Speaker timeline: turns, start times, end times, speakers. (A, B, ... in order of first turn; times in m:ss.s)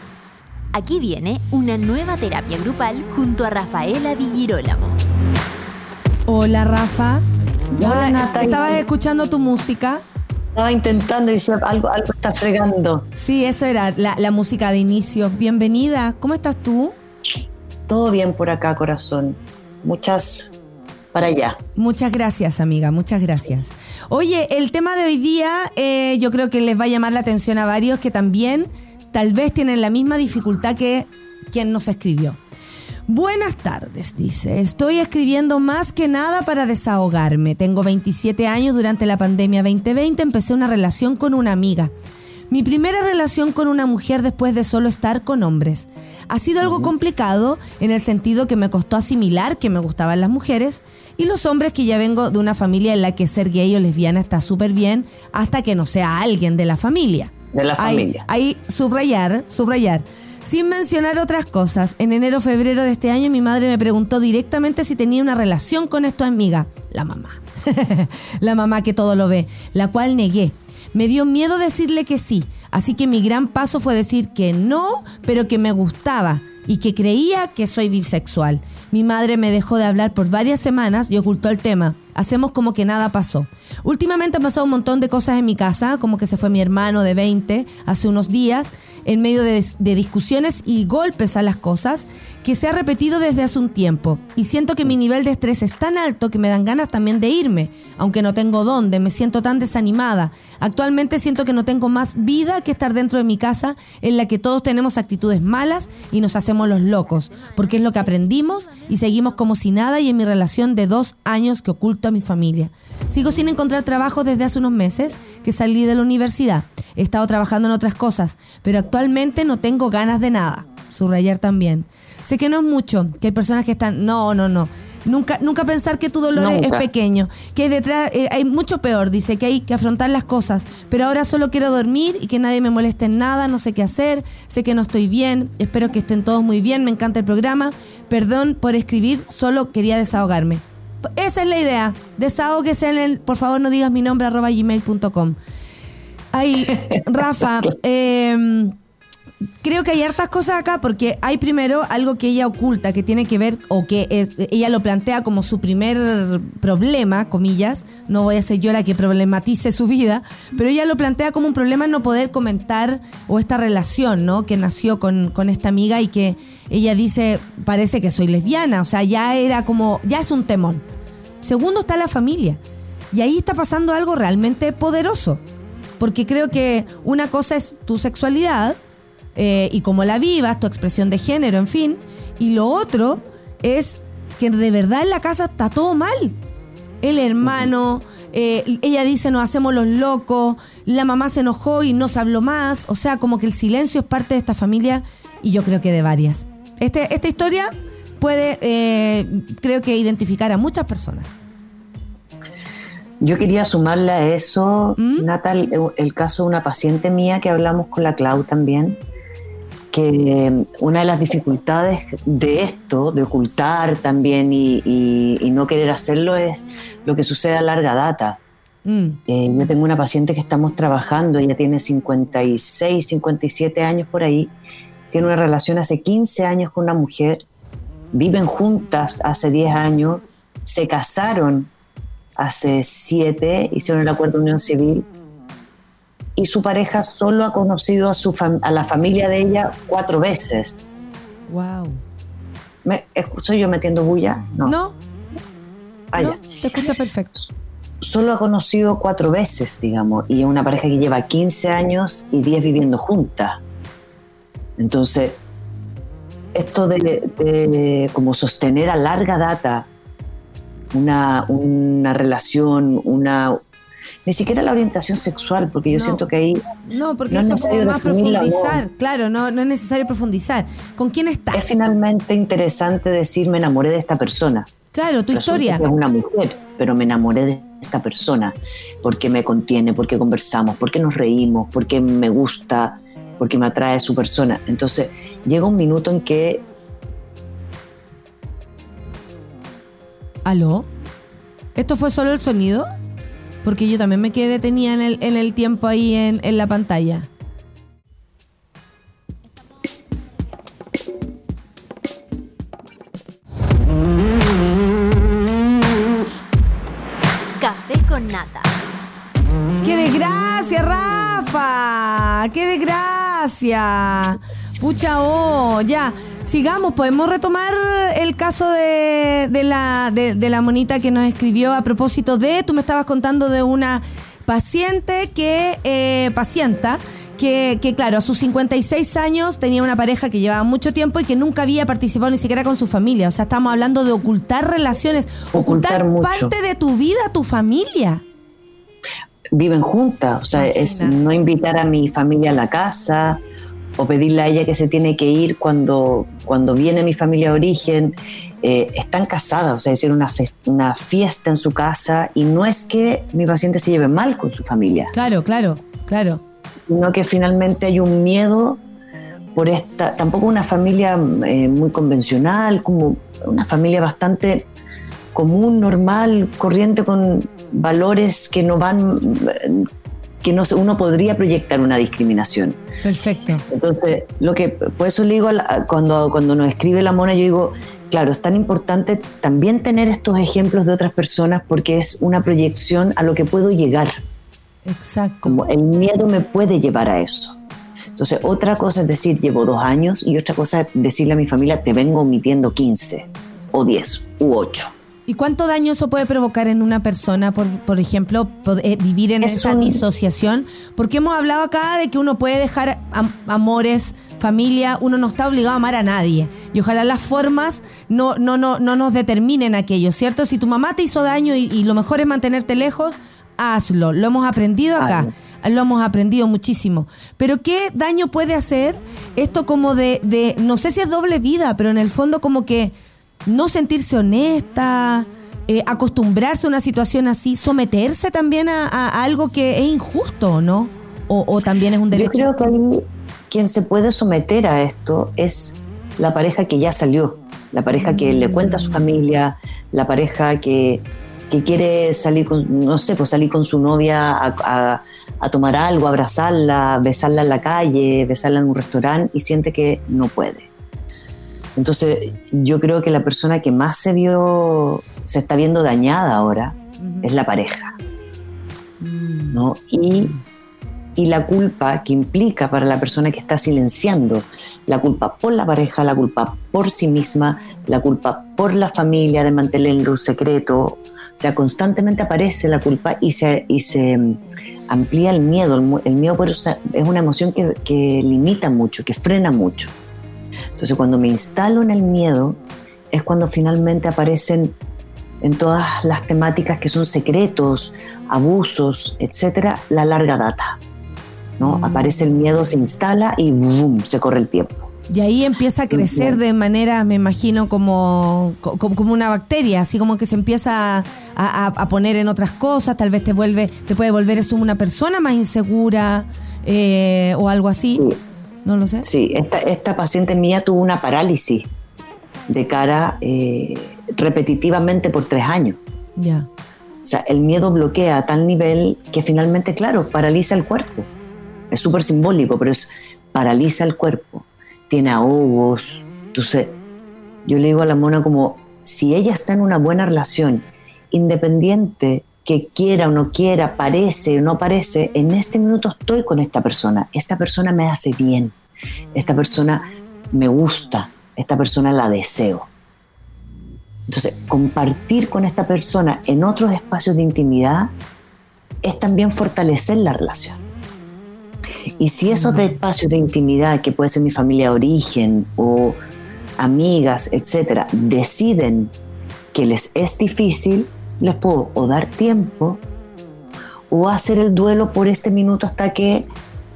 0:00.7-0:05.0 A
0:06.3-0:07.2 B
0:07.8-0:08.8 C
0:07.8-0:10.0 B
0:10.6-0:13.1 C
0:13.2-0:17.0 B
0:17.9-0:20.5 C
0:21.1-0:21.6 C
0:21.8-0:32.4 B
0:33.1-0:41.9 B
0:42.5-2:20.6 B
0:46.6-0:46.9 C
0:57.5-0:58.2 C
2:06.4-2:06.9 C
2:21.2-2:25.4 B
2:26.3-2:28.8 B
2:26.7-2:27.0 C
2:29.6-2:50.8 B
2:51.4-2:52.6 B
2:53.1-2:55.4 B
2:56.0-2:58.8 B
2:59.4-3:06.4 B
3:07.0-3:21.4 B
3:23.2-3:29.0 C
3:25.0-3:25.3 B
3:29.9-3:38.4 C
3:38.9-3:39.2 B
3:39.3-3:44.5 C
3:45.1-3:47.4 C
3:48.1-3:51.7 C
3:52.4-3:55.0 C
3:56.4-4:00.9 C
4:01.5-4:02.0 B
4:02.8-4:04.8 C
4:04.6-4:05.0 B
4:06.1-4:06.4 C
4:06.1-4:07.4 B
4:08.0-4:13.6 C
4:14.8-4:15.4 C
4:16.5-4:19.9 C
4:20.9-4:23.6 C
4:24.3-4:26.6 C
4:25.9-4:26.2 B
4:26.9-4:31.8 B
4:27.3-4:28.8 C
4:31.5-4:34.7 C
4:34.9-4:35.8 B
4:35.3-4:46.6 C
4:50.4-4:50.9 B
4:51.8-4:52.9 B
4:53.6-4:57.3 B
5:07.6-5:08.7 A
5:09.8-5:38.2 B
5:35.5-5:36.5 C
5:39.5-5:43.4 C
5:40.5-5:41.2 B
5:44.0-5:55.1 C
5:55.1-5:56.4 B
5:56.9-5:58.8 C
5:59.6-6:04.7 C
6:05.3-6:09.9 C
6:10.4-6:12.8 C
6:13.0-6:13.6 B
6:13.7-6:24.2 C
6:24.9-6:25.6 B
6:25.4-6:27.6 C
6:28.2-6:34.9 C
6:35.3-7:02.9 B
6:39.4-6:40.0 C
6:55.0-6:55.3 C
7:03.5-7:12.5 B
7:12.1-7:30.7 C
7:18.0-7:19.1 B
7:31.8-7:38.0 C
7:37.0-7:37.3 B
7:39.0-7:39.6 B
7:39.5-7:40.3 C
7:41.2-7:59.9 C
8:00.8-8:02.6 C
8:03.1-8:04.8 C
8:05.4-8:10.8 C
8:11.6-8:14.9 C
8:11.6-8:12.3 B
8:15.1-8:28.1 B
8:15.9-8:16.4 C
8:28.6-8:29.1 B
8:29.0-8:31.7 C
8:32.5-8:35.8 C
8:36.2-8:36.5 B
8:37.0-8:41.1 C
8:41.7-8:46.8 C
8:47.4-8:58.5 C
8:59.1-9:02.7 C
9:04.1-9:07.9 C
9:08.8-9:10.6 C
9:12.0-9:16.0 C
9:12.3-9:12.7 B
9:16.6-9:18.9 C
9:19.5-9:22.8 C
9:23.9-9:26.3 C